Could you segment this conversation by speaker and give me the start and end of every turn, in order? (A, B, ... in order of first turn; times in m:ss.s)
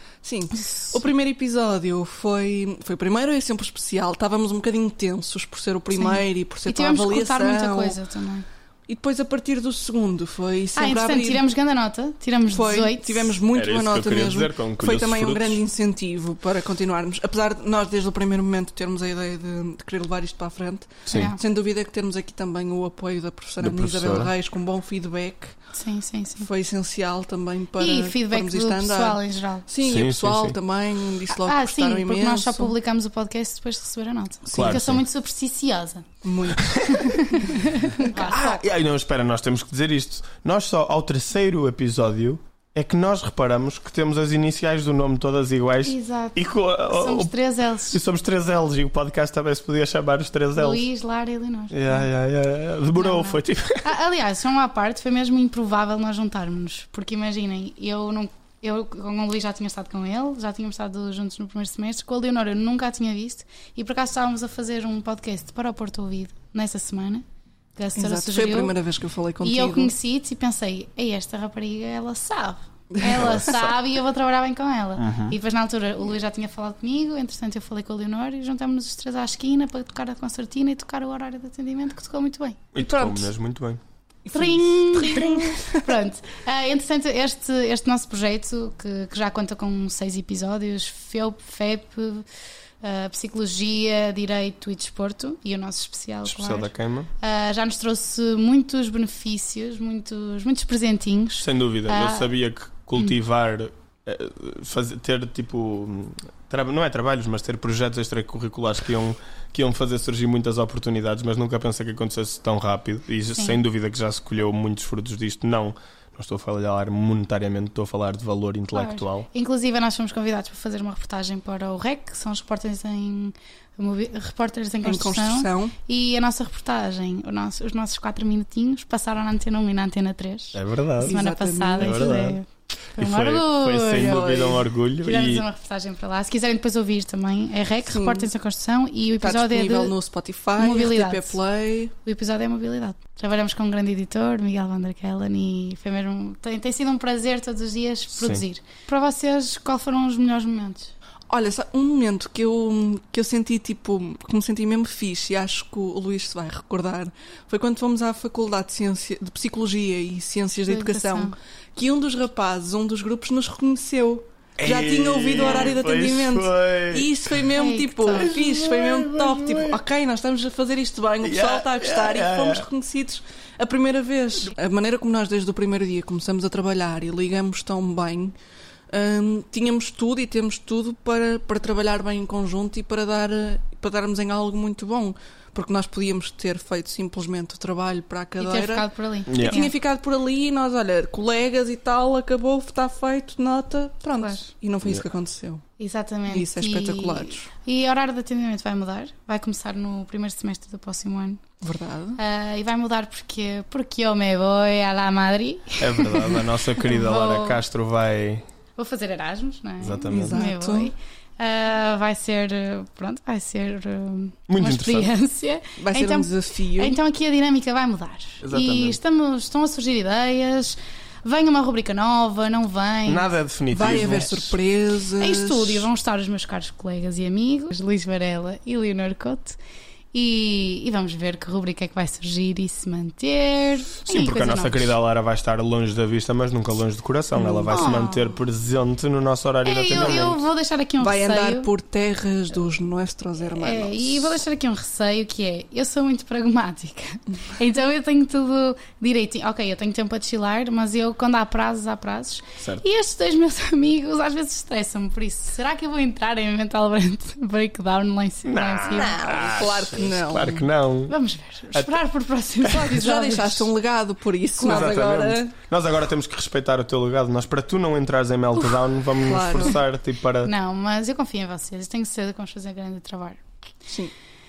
0:00.2-0:08.0 A
0:06.0-0:08.4 B
0:08.9-0:11.4 A
0:10.7-0:13.4 B
0:12.5-0:25.6 A
0:13.5-0:15.6 C
0:21.1-0:21.3 C
0:21.1-0:21.4 B
0:23.6-0:24.3 C
0:25.7-0:26.5 B
0:26.4-0:32.7 A
0:27.8-0:29.7 B
0:29.8-0:30.6 C
0:31.3-0:36.0 B
0:34.5-0:35.0 C
0:36.2-0:37.5 A
0:36.7-0:37.0 C
0:36.9-0:38.6 B
0:38.0-0:47.4 C
0:45.8-0:48.0 B
0:47.9-0:50.9 C
0:50.6-0:52.1 B
0:51.7-0:53.8 C
0:52.9-1:07.2 B
1:07.8-1:08.8 B
1:08.0-1:09.9 A
1:09.4-1:22.6 B
1:13.0-1:13.4 A
1:13.0-1:13.7 C
1:15.0-1:15.3 C
1:22.7-1:23.8 C
1:22.8-1:23.3 A
1:24.2-1:25.9 A
1:24.3-1:32.2 B
1:32.8-1:42.3 B
1:36.2-1:37.1 C
1:41.4-1:59.3 C
1:53.3-1:53.6 B
1:58.7-2:20.0 B
2:04.8-2:05.7 A
2:10.5-2:11.2 C
2:11.0-2:12.1 A
2:11.8-2:12.4 C
2:13.0-2:15.4 C
2:17.9-2:18.3 A
2:19.2-2:21.9 A
2:20.6-2:21.4 B
2:22.0-2:30.9 B
2:28.1-2:28.4 C
2:31.3-2:58.3 A
2:40.6-2:41.3 B
2:44.6-2:47.5 C
2:45.4-2:45.7 B
2:47.5-2:48.3 B
2:48.1-2:49.8 C
2:51.2-2:52.6 C
2:58.9-3:15.6 A
3:08.4-3:09.7 B
3:09.3-3:09.6 C
3:15.8-3:21.4 B
3:16.3-3:17.5 A
3:21.6-3:22.2 A
3:22.2-3:27.6 B
3:25.8-3:28.4 C
3:28.8-3:43.3 B
3:29.8-3:30.5 C
3:30.1-3:30.9 A
3:34.5-3:35.1 C
3:35.8-3:37.0 A
3:38.4-3:39.0 C
3:43.0-3:44.6 C
3:43.7-3:45.9 A
3:45.2-3:49.6 B
3:50.1-3:54.9 B
3:54.1-4:00.4 C
3:57.3-3:58.0 A
3:57.7-3:58.4 B
3:59.6-4:01.7 B
4:01.0-4:04.4 A
4:03.5-4:19.4 B
4:12.6-4:12.8 C
4:18.4-4:21.2 C
4:18.9-4:20.7 A
4:21.1-4:23.7 B
4:22.6-4:25.5 A
4:24.6-4:30.5 C
4:29.2-4:29.8 A
4:30.4-4:33.4 B
4:33.9-4:34.1 A